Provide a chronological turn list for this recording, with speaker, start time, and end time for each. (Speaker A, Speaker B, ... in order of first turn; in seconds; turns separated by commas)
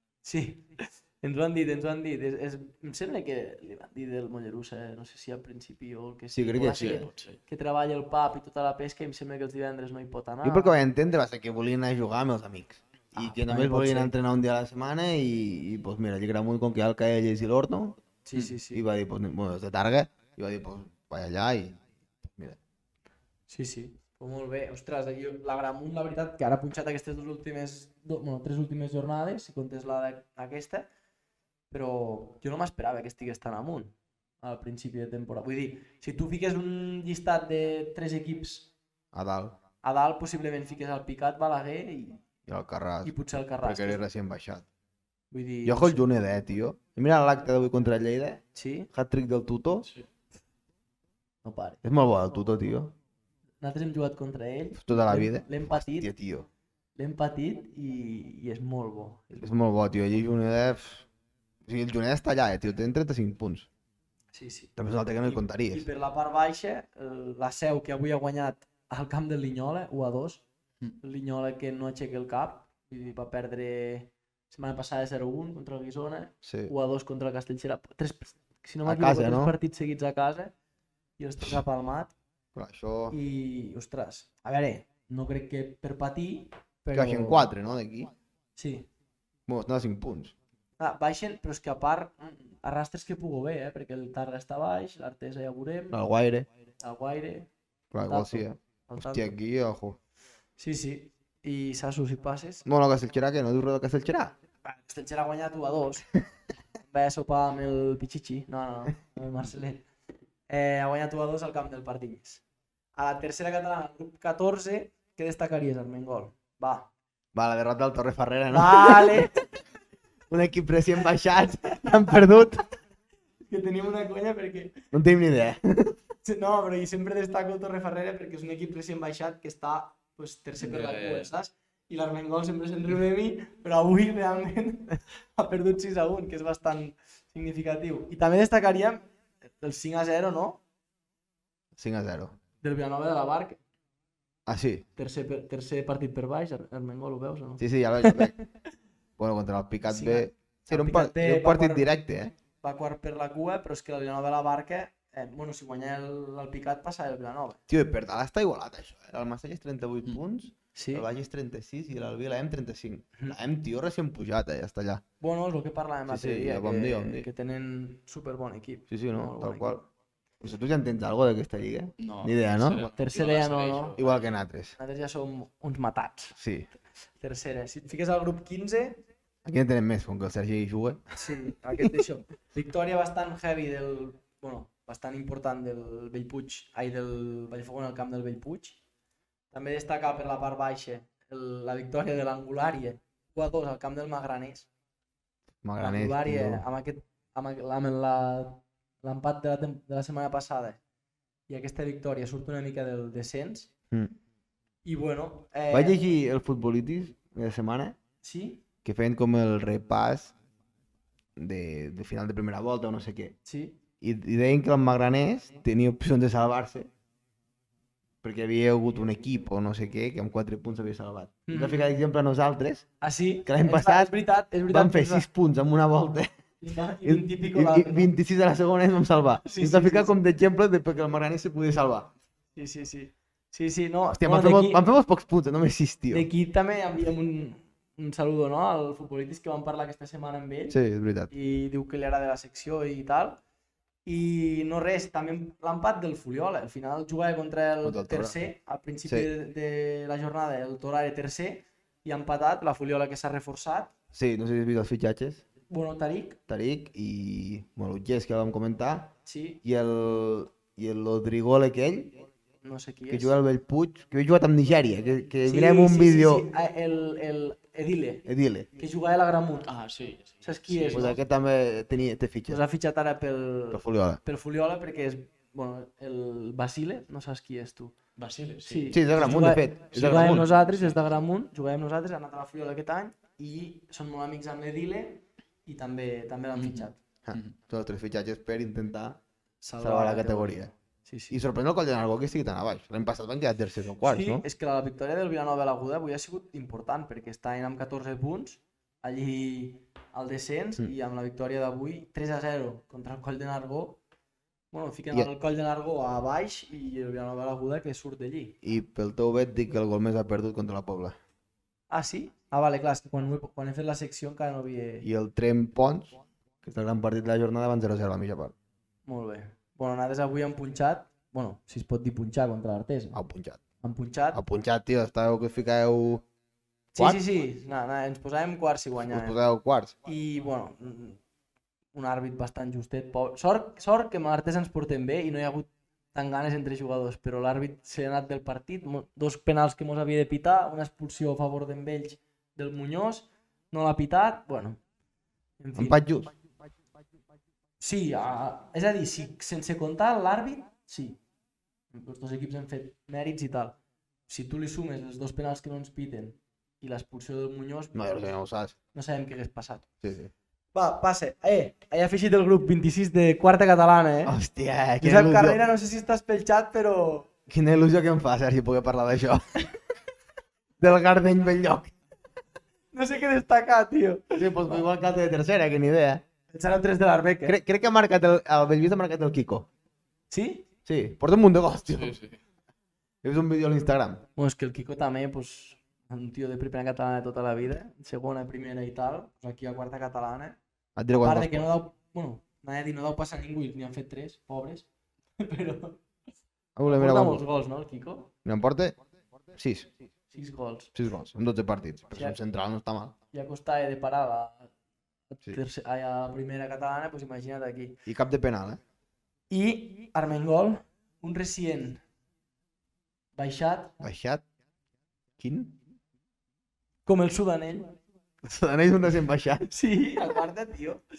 Speaker A: 0.2-10.8, Speaker B: 6.3-7.1, Speaker C: 6.7-7.4, Speaker B: 10.4-18.0, Speaker A: 13.1-14.1, Speaker A: 18.2-18.8, Speaker B: 18.7-22.6, Speaker A: 23.5-30.9, Speaker A: 31.7-38.7, Speaker B: 39.1-39.6, Speaker A: 39.8-42.2, Speaker B: 42.5-44.6, Speaker A: 43.0-44.0, Speaker A: 45.3-46.0, Speaker B: 45.6-49.9, Speaker A: 48.5-48.9, Speaker A: 51.4-51.8, Speaker B: 51.8-53.0, Speaker A: 53.6-56.1, Speaker B: 54.8-56.5, Speaker A: 57.0-59.5, Speaker B: 59.4-61.1, Speaker B: 61.6-63.7, Speaker A: 64.3-70.5, Speaker B: 64.8-65.9, Speaker A: 71.0-80.5, Speaker B: 76.4-76.7, Speaker B: 78.8-79.6, Speaker A: 81.2-82.1, Speaker B: 82.5-83.2, Speaker A: 83.1-87.5, Speaker B: 86.9-88.1, Speaker A: 88.6-88.9, Speaker B: 89.5-90.3, Speaker A: 90.8-96.0, Speaker B: 95.9-96.5, Speaker A: 96.8-97.5, Speaker B: 97.9-100.0, Speaker A: 98.1-99.4, Speaker A: 100.6-102.7, Speaker B: 102.7-104.3, Speaker A: 104.7-106.1, Speaker A: 106.8-109.9, Speaker A: 110.5-112.4, Speaker A: 113.0-116.9, Speaker B: 117.3-119.4, Speaker A: 118.5-119.4, Speaker B: 120.3-122.7, Speaker A: 123.5-124.9, Speaker B: 124.9-126.0, Speaker A: 126.2-140.6, Speaker C: 130.6-131.3, Speaker B: 141.8-142.4, Speaker A: 142.6-143.6, Speaker B: 144.5-144.8, Speaker A: 145.0-148.3, Speaker B: 147.6-148.3, Speaker B: 149.2-152.3, Speaker A: 149.9-151.9, Speaker A: 152.6-157.6, Speaker B: 157.7-165.0, Speaker A: 160.8-161.1, Speaker A: 165.2-169.8, Speaker B: 166.1-167.3, Speaker B: 168.9-169.8, Speaker B: 170.4-172.9, Speaker C: 172.0-174.2, Speaker A: 173.0-174.0, Speaker B: 174.0-174.8, Speaker A: 174.8-176.4, Speaker B: 176.4-176.7, Speaker A: 177.2-179.0, Speaker B: 179.4-181.9, Speaker A: 181.2-188.8, Speaker A: 189.5-194.7, Speaker B: 195.6-196.7, Speaker A: 195.8-200.8, Speaker A: 201.5-203.7, Speaker A: 204.8-206.0, Speaker B: 205.7-208.0, Speaker A: 208.2-208.6, Speaker B: 208.8-210.3, Speaker B: 211.4-213.4, Speaker A: 213.4-213.8, Speaker B: 214.0-216.9, Speaker B: 218.2-222.9, Speaker A: 221.5-221.9, Speaker A: 223.0-225.3, Speaker B: 223.4-224.1, Speaker B: 224.7-226.3, Speaker A: 226.6-228.1, Speaker B: 227.0-232.1, Speaker A: 229.4-230.1, Speaker A: 232.6-234.8, Speaker B: 234.2-236.3, Speaker A: 236.1-240.8, Speaker B: 240.7-241.3, Speaker A: 241.3-243.4, Speaker A: 244.1-253.9, Speaker B: 247.8-248.4, Speaker B: 254.1-255.4, Speaker A: 255.7-256.4, Speaker B: 256.5-262.2, Speaker A: 259.3-259.6, Speaker A: 262.6-263.4, Speaker B: 263.1-266.4, Speaker A: 265.4-269.7, Speaker B: 268.3-268.7, Speaker C: 269.6-271.2, Speaker A: 270.4-271.2, Speaker B: 270.9-272.6, Speaker A: 272.5-277.9, Speaker B: 273.7-274.2, Speaker C: 278.2-281.1, Speaker A: 278.6-287.0, Speaker B: 278.9-280.5, Speaker C: 286.6-287.6, Speaker B: 287.3-289.2, Speaker A: 289.6-291.4, Speaker B: 289.8-290.7, Speaker B: 291.3-294.4, Speaker A: 294.0-304.0, Speaker A: 304.7-308.6, Speaker B: 308.6-311.2, Speaker A: 311.9-315.1, Speaker B: 315.0-318.6, Speaker A: 319.1-323.2, Speaker B: 323.1-323.6, Speaker A: 323.8-324.4, Speaker B: 324.3-326.2, Speaker A: 326.9-329.4, Speaker B: 327.0-327.2, Speaker B: 329.1-329.9, Speaker A: 330.1-331.2, Speaker A: 331.9-344.8, Speaker A: 345.6-346.0, Speaker B: 345.8-346.3, Speaker A: 347.8-351.2, Speaker A: 351.9-353.8, Speaker A: 354.3-358.4, Speaker B: 357.9-358.8, Speaker A: 358.9-359.9, Speaker B: 360.0-360.3, Speaker A: 360.7-364.4, Speaker B: 364.3-365.6, Speaker A: 365.0-367.3, Speaker B: 367.5-369.8, Speaker B: 370.8-371.9, Speaker A: 372.9-374.8, Speaker B: 374.4-376.2, Speaker A: 376.5-377.6, Speaker B: 377.4-379.7, Speaker A: 380.3-380.7, Speaker B: 380.9-382.2, Speaker C: 381.9-382.4, Speaker B: 383.2-384.3, Speaker A: 384.4-390.6, Speaker B: 391.0-391.7, Speaker A: 391.2-394.9, Speaker A: 395.4-396.0, Speaker B: 396.8-397.4, Speaker A: 396.9-398.3, Speaker B: 398.4-399.0, Speaker B: 399.5-399.9, Speaker A: 400.3-400.9, Speaker B: 400.9-403.1, Speaker A: 403.3-404.7, Speaker A: 405.3-408.0, Speaker B: 408.1-408.8, Speaker A: 409.5-412.0, Speaker A: 413.4-414.0, Speaker B: 414.0-414.4, Speaker B: 415.4-415.8, Speaker A: 417.1-418.0, Speaker B: 418.4-419.7, Speaker A: 419.7-421.0